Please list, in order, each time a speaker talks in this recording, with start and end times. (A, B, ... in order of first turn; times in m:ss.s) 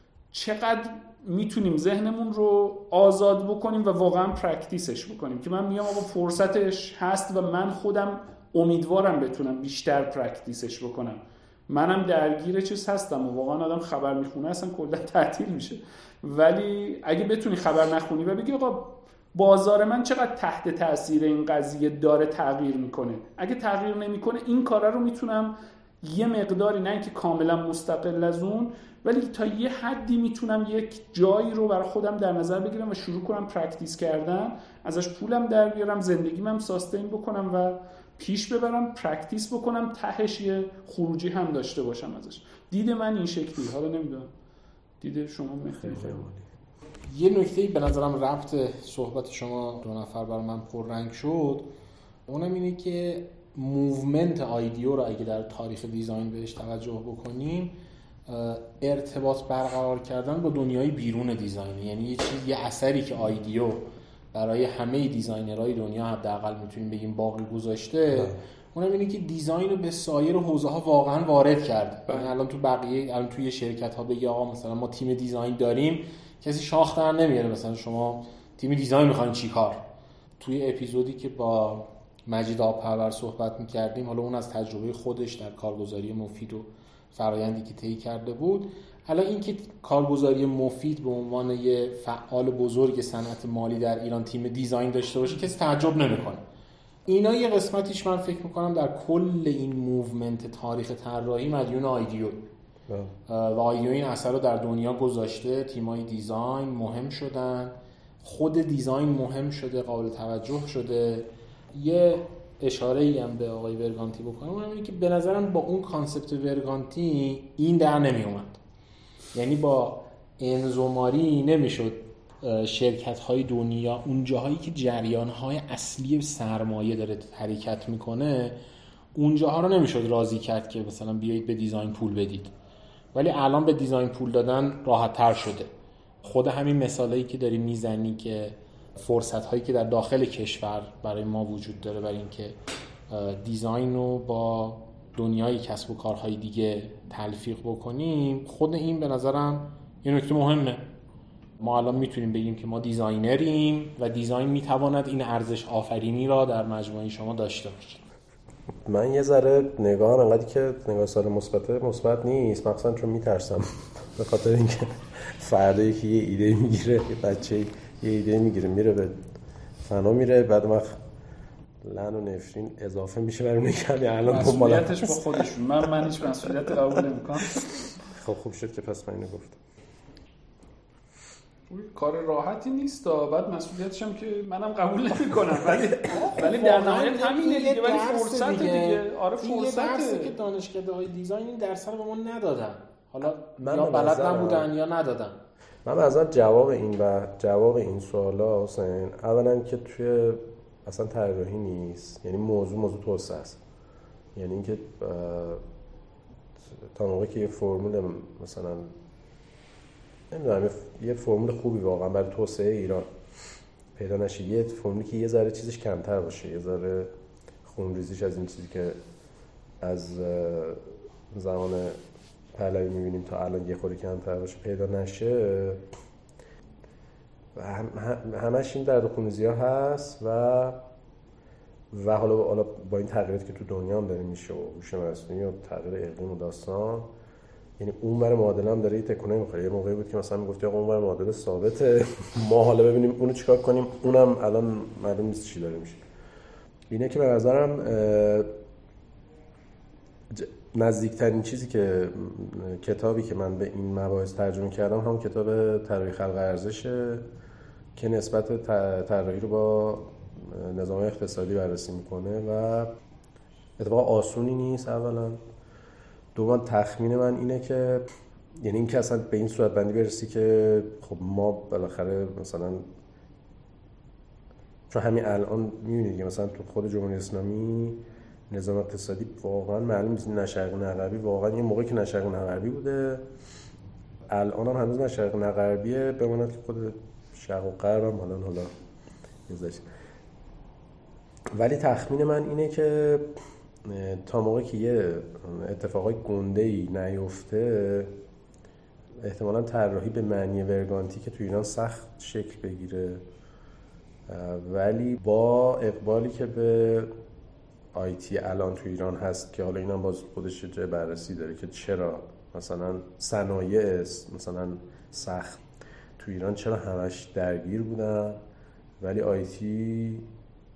0:00.3-0:44.3 A
0:45.0-0:46.2 A
0:45.7-0:46.5 B
0:47.1-0:51.7 C
0:52.3-1:19.8 C
1:08.1-1:08.4 B
1:12.1-1:12.3 A
1:20.4-1:36.4 C
1:37.1-1:42.5 C
1:43.3-1:58.6 C
1:59.3-2:08.6 C
2:09.2-2:12.5 C
2:13.1-2:15.7 C
2:16.2-2:22.6 C
2:23.1-2:30.8 C
2:31.6-2:38.0 C
2:38.9-2:49.2 B
2:49.8-2:51.0 B
2:51.8-2:55.4 B
2:54.3-2:57.6 A
2:57.6-2:59.6 B
3:01.7-3:10.3 A
3:06.2-3:15.4 C
3:13.6-3:14.7 B
3:15.8-3:23.6 B
3:24.4-3:25.6 B
3:26.7-3:29.0 B
3:30.3-3:33.1 B
3:34.0-3:37.1 B
3:37.6-3:39.0 B
3:39.8-3:42.0 B
3:42.6-3:45.8 B
3:47.6-3:50.8 B
3:51.9-3:57.1 B
3:57.8-4:06.0 B
4:06.9-4:08.5 B
4:10.3-4:17.2 B
4:18.0-4:22.9 B
4:23.8-4:25.4 B
4:26.4-4:28.1 B
4:28.6-4:32.8 B
4:34.9-4:43.2 B
4:44.3-4:48.7 B
4:49.5-4:49.8 B
4:51.5-4:58.1 B
4:59.2-5:03.2 B
5:04.3-5:07.1 B
5:07.9-5:15.6 B
5:16.2-5:18.4 B
5:19.0-5:20.3 B